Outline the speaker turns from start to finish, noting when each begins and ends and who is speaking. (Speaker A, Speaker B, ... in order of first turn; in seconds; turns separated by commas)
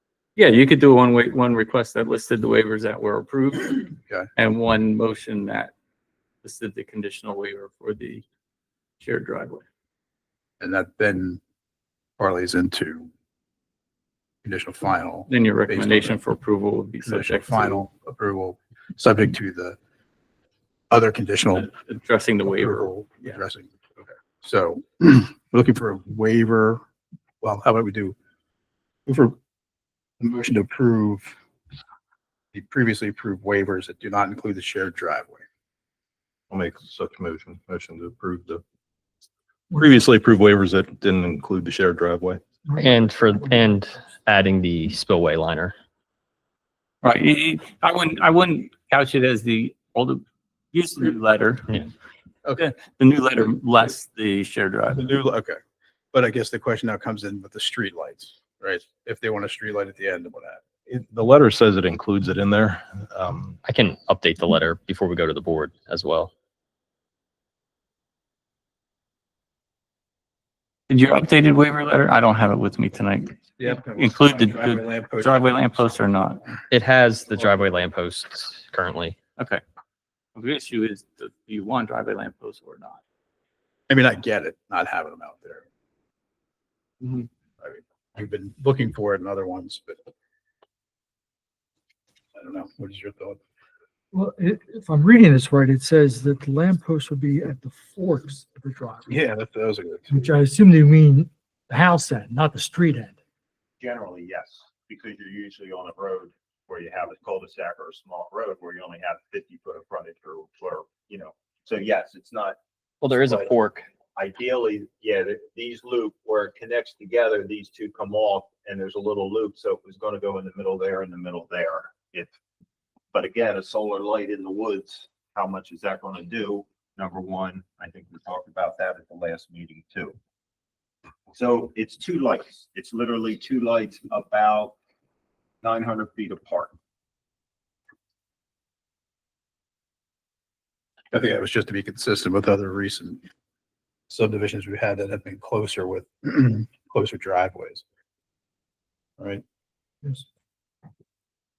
Speaker A: 0.4-5.7, Speaker A: 6.4-8.2, Speaker A: 9.0-9.6, Speaker B: 10.6-11.4, Speaker B: 12.2-13.1, Speaker B: 14.4-16.2, Speaker A: 15.3-17.8, Speaker B: 17.1-19.8, Speaker B: 20.9-21.7, Speaker A: 21.6-22.9, Speaker B: 22.4-26.8, Speaker B: 27.4-28.1, Speaker B: 29.1-29.4, Speaker B: 30.2-31.3, Speaker B: 32.5-35.4, Speaker C: 36.5-38.6, Speaker C: 39.7-42.4, Speaker D: 42.7-44.0, Speaker E: 42.8-45.8, Speaker A: 47.0-51.8, Speaker A: 52.6-55.0, Speaker B: 54.9-55.6, Speaker B: 56.1-60.6, Speaker C: 60.9-63.6, Speaker E: 63.7-66.3, Speaker A: 70.9-76.4, Speaker B: 73.6-75.5, Speaker E: 76.7-79.2, Speaker A: 79.4-79.6, Speaker A: 80.4-83.0, Speaker B: 83.9-85.7, Speaker B: 87.6-90.0, Speaker B: 92.4-93.4, Speaker D: 94.1-99.1, Speaker B: 99.1-100.2, Speaker D: 100.1-103.2, Speaker F: 103.8-112.6, Speaker E: 113.0-113.9, Speaker F: 113.2-113.5, Speaker F: 114.2-122.3, Speaker F: 123.1-130.2, Speaker F: 131.3-134.8, Speaker F: 135.6-136.7, Speaker B: 141.1-143.2, Speaker B: 144.1-147.8